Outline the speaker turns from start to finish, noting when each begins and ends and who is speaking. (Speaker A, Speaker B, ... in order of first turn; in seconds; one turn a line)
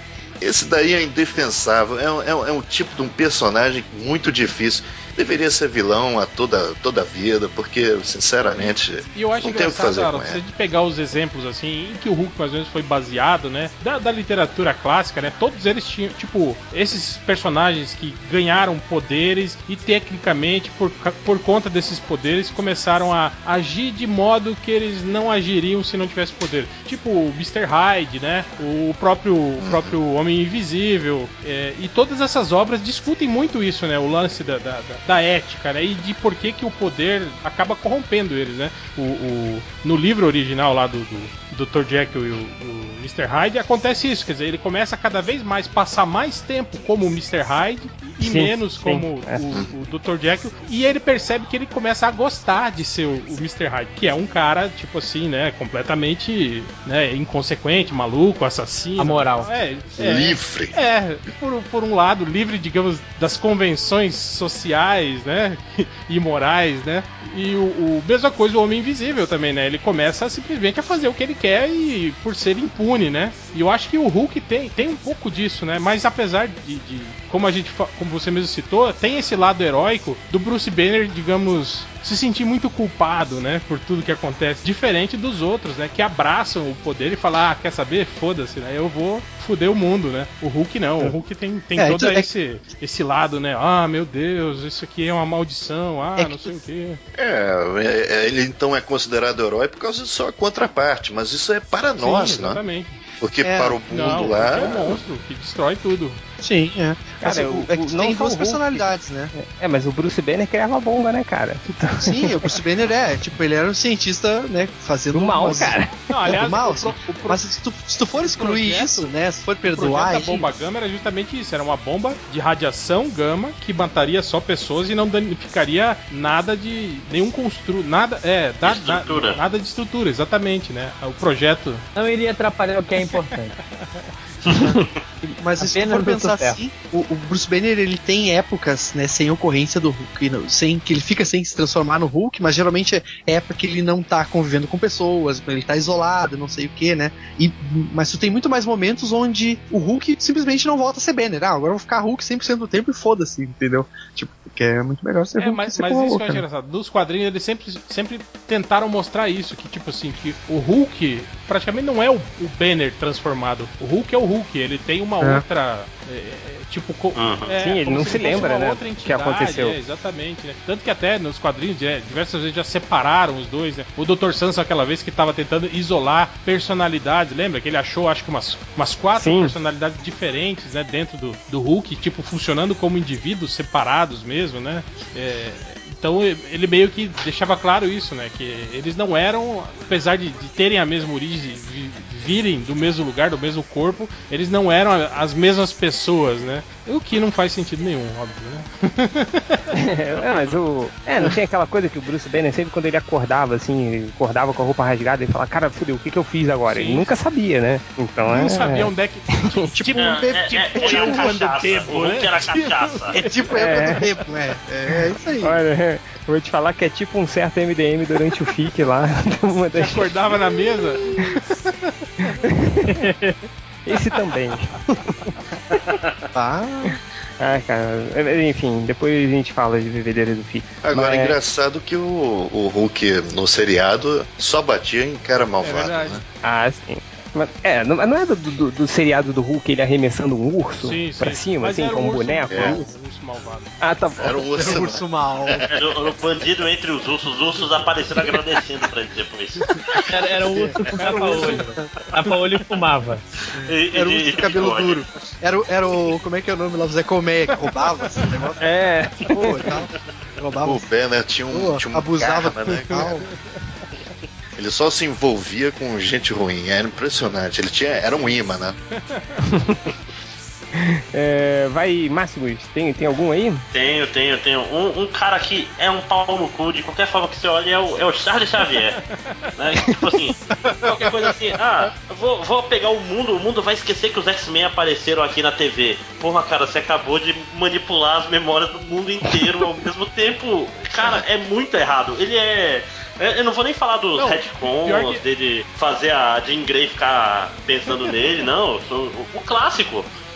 Speaker A: 0.4-10.4
Speaker B: 9.1-97.0
Speaker A: 29.6-30.0
Speaker C: 48.2-49.4
Speaker D: 59.0-59.5
Speaker A: 60.0-60.7
Speaker E: 91.8-92.3
Speaker E: 96.2-96.5
Speaker A: 97.2-102.6
Speaker B: 102.0-102.9
Speaker A: 103.2-105.0
Speaker E: 103.4-104.3
Speaker B: 103.9-106.2
Speaker E: 106.4-109.3
Speaker C: 107.2-112.6
Speaker E: 112.0-115.8
Speaker C: 115.1-116.4
Speaker B: 116.1-117.4
Speaker E: 116.3-120.5
Speaker B: 118.2-119.0
Speaker B: 119.7-131.8
Speaker F: 128.6-129.4
Speaker D: 131.9-133.5
Speaker F: 134.4-134.9
Speaker E: 135.2-156.4
Speaker D: 135.6-136.6
Speaker B: 155.4-199.7
Speaker F: 167.2-167.5
Speaker C: 167.6-169.8
Speaker C: 179.2-179.5
Speaker C: 199.8-208.9
Speaker B: 206.7-207.1
Speaker B: 208.2-213.4
Speaker E: 209.7-211.3
Speaker F: 209.9-213.2
Speaker E: 213.1-215.6
Speaker C: 213.5-214.1
Speaker C: 215.4-220.3
Speaker B: 219.8-221.9
Speaker C: 222.2-223.1
Speaker D: 223.1-223.3
Speaker C: 223.8-225.3
Speaker E: 226.3-227.0
Speaker C: 227.4-231.4
Speaker A: 230.8-236.2
Speaker B: 235.6-236.2
Speaker C: 236.4-242.8
Speaker B: 240.8-243.7
Speaker A: 242.5-242.8
Speaker C: 243.8-244.4
Speaker A: 244.2-245.7
Speaker E: 244.6-245.7
Speaker F: 245.7-249.6
Speaker D: 250.1-253.2
Speaker E: 250.4-252.0
Speaker B: 251.1-251.6
Speaker E: 253.5-258.6
Speaker F: 253.6-255.0
Speaker C: 258.6-259.7
Speaker E: 259.3-260.8
Speaker A: 260.6-263.1
Speaker E: 261.5-263.2
Speaker A: 264.6-268.8
Speaker C: 269.5-269.8
Speaker C: 270.8-273.6
Speaker F: 273.7-279.0
Speaker B: 279.1-279.5
Speaker F: 279.6-300.1
Speaker B: 294.2-295.2